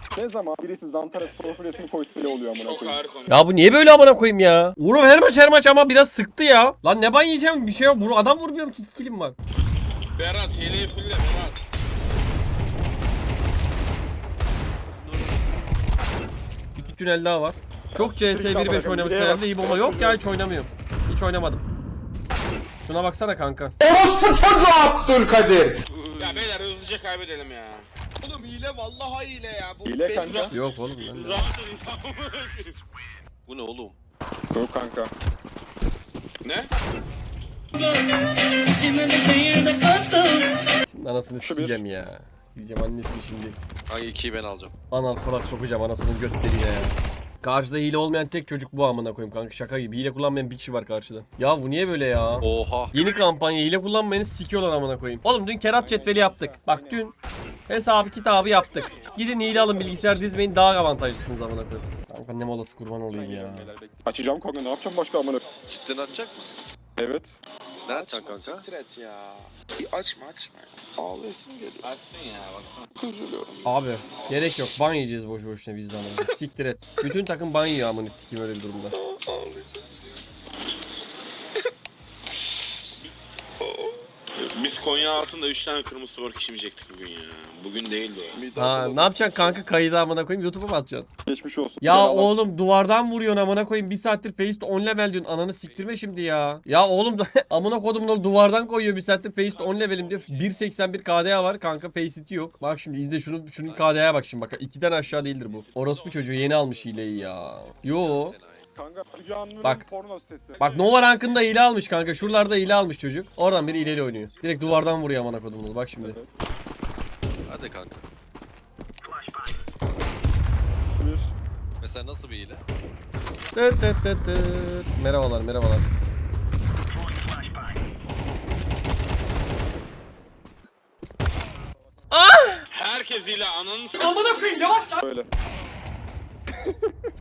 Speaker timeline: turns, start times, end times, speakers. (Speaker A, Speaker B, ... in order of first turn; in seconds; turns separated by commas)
Speaker A: 0.1-3.0, Speaker B: 2.5-3.4, Speaker C: 3.3-9.4, Speaker B: 10.2-11.6, Speaker C: 16.8-21.6, Speaker A: 17.9-20.3, Speaker C: 22.9-23.8, Speaker D: 23.8-25.8, Speaker E: 25.9-26.6, Speaker B: 26.2-27.9, Speaker D: 28.2-30.6, Speaker A: 29.9-30.6, Speaker C: 30.5-31.5, Speaker B: 31.1-32.8, Speaker E: 33.5-34.0, Speaker A: 34.5-35.1, Speaker B: 36.4-36.7, Speaker C: 40.9-43.6, Speaker A: 41.4-41.8, Speaker E: 43.9-44.7, Speaker C: 44.9-57.1, Speaker E: 52.4-53.0, Speaker A: 55.8-57.0, Speaker C: 57.7-63.7, Speaker D: 58.8-60.2, Speaker A: 63.1-65.4, Speaker E: 65.7-66.6, Speaker A: 67.0-67.4, Speaker E: 67.9-68.7, Speaker D: 67.9-71.9, Speaker B: 71.8-72.9, Speaker D: 73.0-73.7, Speaker C: 73.7-78.9, Speaker D: 79.0-79.8, Speaker D: 83.7-84.0, Speaker B: 84.4-88.4, Speaker D: 88.3-89.6, Speaker C: 88.6-91.1, Speaker A: 91.3-92.3, Speaker C: 91.8-108.4, Speaker E: 95.6-96.3, Speaker B: 99.5-100.5, Speaker E: 103.6-104.1, Speaker E: 105.0-108.7, Speaker A: 108.7-110.7, Speaker C: 110.6-116.2, Speaker E: 113.7-114.9, Speaker A: 116.0-116.3, Speaker E: 117.5-118.0, Speaker A: 121.0-121.3, Speaker E: 121.8-122.6, Speaker C: 123.5-125.9, Speaker C: 132.1-132.7, Speaker B: 132.7-134.1, Speaker C: 134.0-135.0, Speaker A: 135.0-135.3, Speaker A: 136.7-136.9